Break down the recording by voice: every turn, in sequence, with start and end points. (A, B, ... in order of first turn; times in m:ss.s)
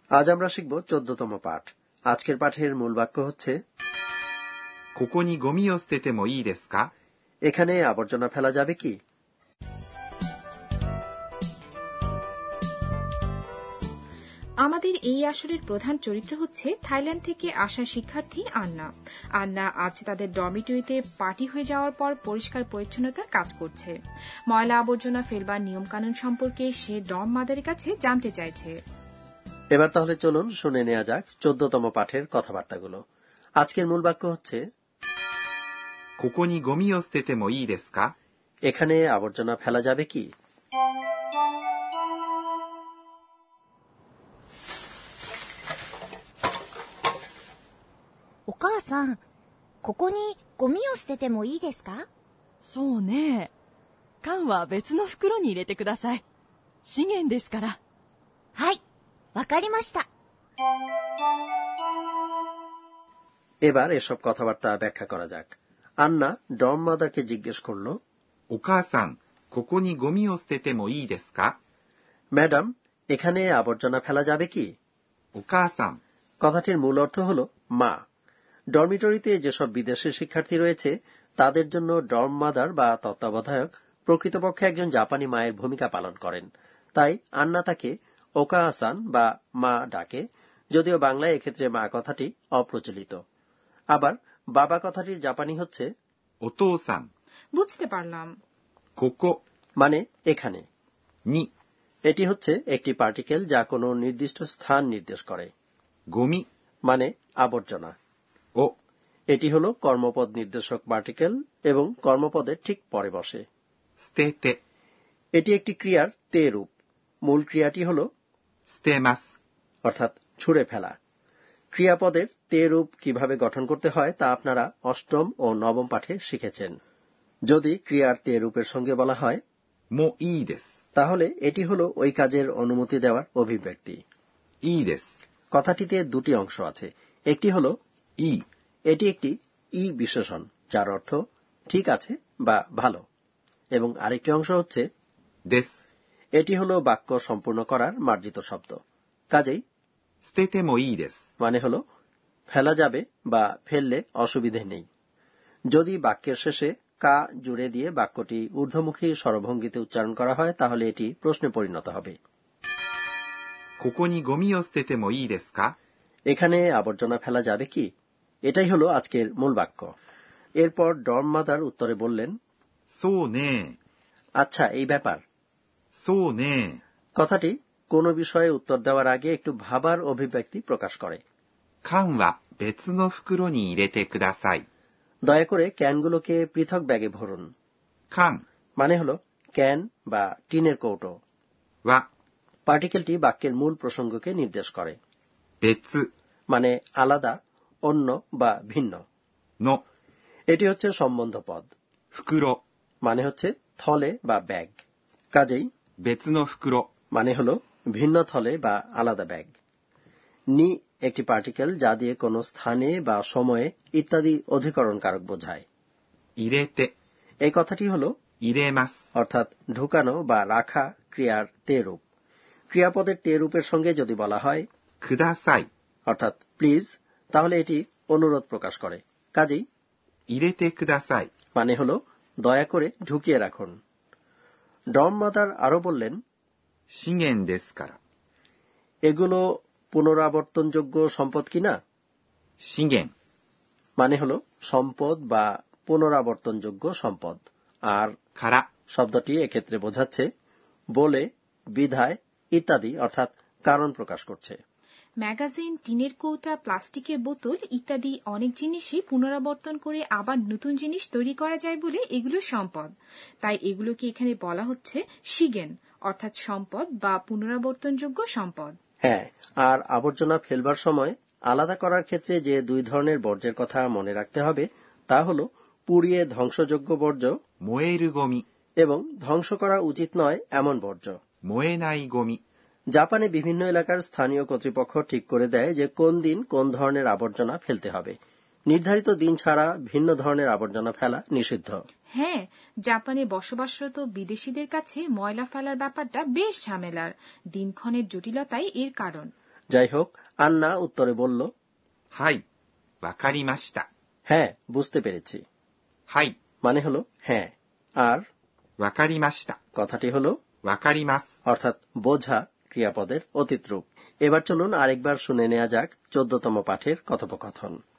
0:00.2-0:03.5 A
0:05.0-0:06.9 B
0:07.5-0:09.0 A
0:14.6-0:23.9 C
0:24.5-0:28.7 C
0:29.8-0:33.0 A
0:33.6-0:34.6 A
0:36.2-0:38.1 B
0:38.7-0:40.3 A
0:48.5-0:49.2 D
0:49.8-0:52.1 D
0:52.6-0:53.5 E
0:54.2-0:56.2 E
0:56.8-0:57.8 E
0:58.6-0:58.8 D
0:59.3-1:00.1 D
1:03.7-1:07.9 A
1:08.5-1:11.5 B
1:12.4-1:14.7 A
1:15.4-1:16.0 B
1:16.4-1:18.0 A
1:18.7-1:33.2 A
1:33.9-1:35.9 A
1:36.4-1:37.1 B
1:37.6-1:38.3 C
1:39.0-1:39.3 B
1:39.8-1:40.6 A
1:42.1-1:45.5 A
1:46.1-1:46.4 B
1:46.9-1:47.9 A
1:49.3-1:53.4 A
1:54.0-1:54.6 B
1:55.4-1:56.7 A
1:57.3-1:58.1 A
1:58.7-1:59.2 B
1:59.8-2:00.9 A
2:01.7-2:06.7 A
2:07.5-2:09.4 A
2:09.9-2:10.7 B
2:11.0-2:14.0 A
2:14.6-2:15.1 B
2:15.5-2:17.7 A
2:18.9-2:21.2 A
2:21.7-2:23.0 A
2:23.8-2:24.8 A
2:25.5-2:25.8 B
2:26.4-2:28.8 A
2:29.3-2:29.6 A
2:30.2-2:31.2 B
2:31.4-2:31.8 A
2:32.5-2:34.8 A
2:35.7-2:42.2 A
2:43.8-2:45.7 B
2:46.3-2:47.9 A
2:48.5-2:49.9 A
2:50.6-2:52.3 A
2:52.9-2:53.8 B
2:54.4-2:55.2 A
2:56.0-2:56.8 B
2:57.2-3:01.2 A
3:01.8-3:04.6 B
3:05.2-3:07.5 A
3:08.1-3:08.4 B
3:08.8-3:11.1 A
3:12.7-3:15.0 A
3:15.6-3:16.0 B
3:16.5-3:17.3 A
3:17.9-3:19.0 A
3:20.5-3:21.7 A
3:22.1-3:22.6 B
3:23.0-3:24.8 A
3:25.3-3:25.7 A
3:26.0-3:26.9 B
3:27.1-3:29.5 A
3:30.6-3:35.6 A
3:36.4-3:36.9 B
3:37.4-3:38.1 A
3:38.4-3:39.0 B
3:39.2-3:42.0 A
3:42.7-3:44.6 A
3:45.0-3:45.7 B
3:46.1-3:49.6 A
3:50.3-3:51.3 B
3:51.6-3:53.7 A
3:55.0-3:56.2 A
3:56.9-3:58.0 B
3:59.1-4:01.8 A
4:02.6-4:03.1 B
4:04.0-4:08.1 A
4:08.4-4:08.6 B
4:08.9-4:10.2 A
4:11.0-4:11.2 A
4:11.8-4:14.6 A
4:15.2-4:22.9 C
4:23.4-4:28.7 C
4:29.0-4:37.3 A
4:37.6-4:38.4 B
4:38.8-4:41.1 A
4:41.5-4:42.4 B
4:43.0-4:48.1 A
4:48.7-4:51.8 A
4:52.1-4:59.3 C
4:59.7-5:01.5 A
5:02.1-5:02.4 B
5:03.0-5:03.9 B
5:04.3-5:05.4 A
5:06.1-5:06.3 B
5:06.6-5:08.2 A
5:08.8-5:09.6 B
5:09.8-5:10.3 A
5:10.6-5:11.3 B
5:11.5-5:17.8 A